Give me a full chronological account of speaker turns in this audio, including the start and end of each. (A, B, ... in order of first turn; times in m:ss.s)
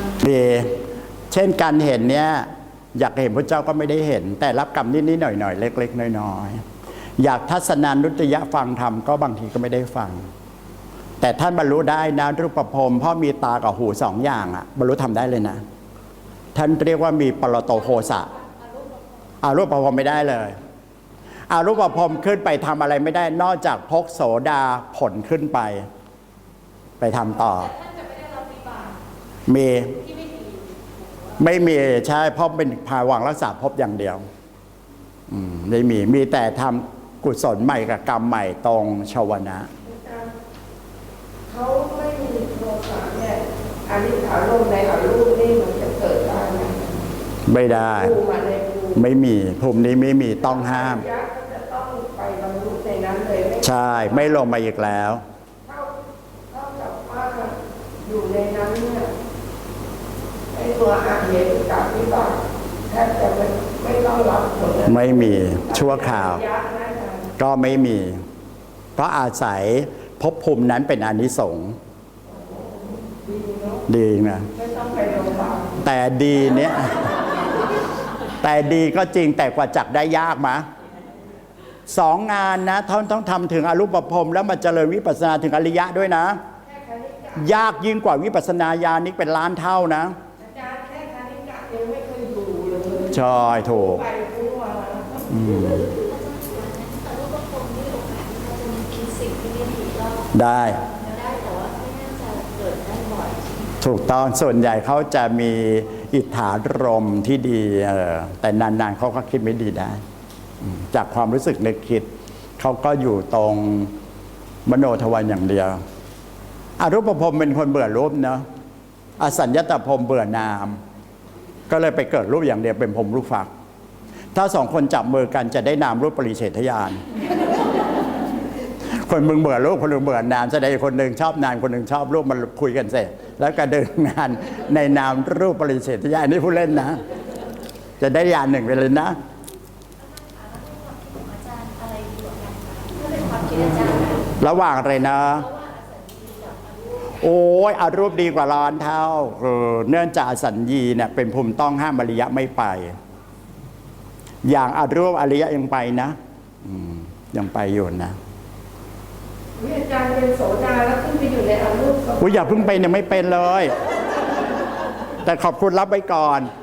0:00.2-0:00.8 A
0:01.3-0:06.6 A
0:07.2-0:10.3 A
0:11.2-0:15.6 A
0:16.6-0:18.3 A
0:18.4-0:18.7 B
0:19.4-0:20.6 A
0:21.5-0:25.9 A
0:27.0-0:27.7 A
0:27.8-0:28.9 B
0:29.5-0:30.0 A
0:31.4-0:34.2 A
0:35.3-0:39.7 A
0:39.8-0:40.3 C
0:41.5-0:47.1 C
0:47.4-0:48.2 A
0:47.9-0:49.0 C
0:49.0-0:51.0 A
0:50.4-0:54.3 C
0:53.6-0:55.2 A
0:55.7-0:56.0 C
0:56.5-0:59.1 C
1:00.5-1:07.3 C
1:04.8-1:06.4 A
1:07.4-1:08.2 A
1:09.0-1:11.8 A
1:13.1-1:13.8 C
1:13.9-1:14.5 A
1:14.5-1:15.8 C
1:15.8-1:17.2 A
1:18.4-1:20.7 A
1:21.9-1:26.4 A
1:26.6-1:27.5 C
1:27.4-1:30.2 A
1:30.4-1:35.3 C
1:33.1-1:34.0 A
1:35.3-1:35.8 A
1:35.3-1:40.3 B
1:40.3-1:40.8 A
1:40.8-1:43.7 B
1:43.8-1:50.0 A
1:50.6-1:52.1 A
1:52.6-1:53.9 A
1:54.7-1:55.8 A
1:56.8-1:58.4 A
1:59.2-2:00.8 A
2:01.7-2:03.5 A
2:04.3-2:07.0 A
2:08.9-2:17.0 A
2:18.0-2:19.2 A
2:20.0-2:24.3 B
2:24.4-2:25.5 A
2:25.3-2:27.2 B
2:27.2-2:33.0 A
2:34.4-2:38.2 A
2:39.6-2:42.7 C
2:42.2-2:43.8 A
2:45.2-2:46.5 A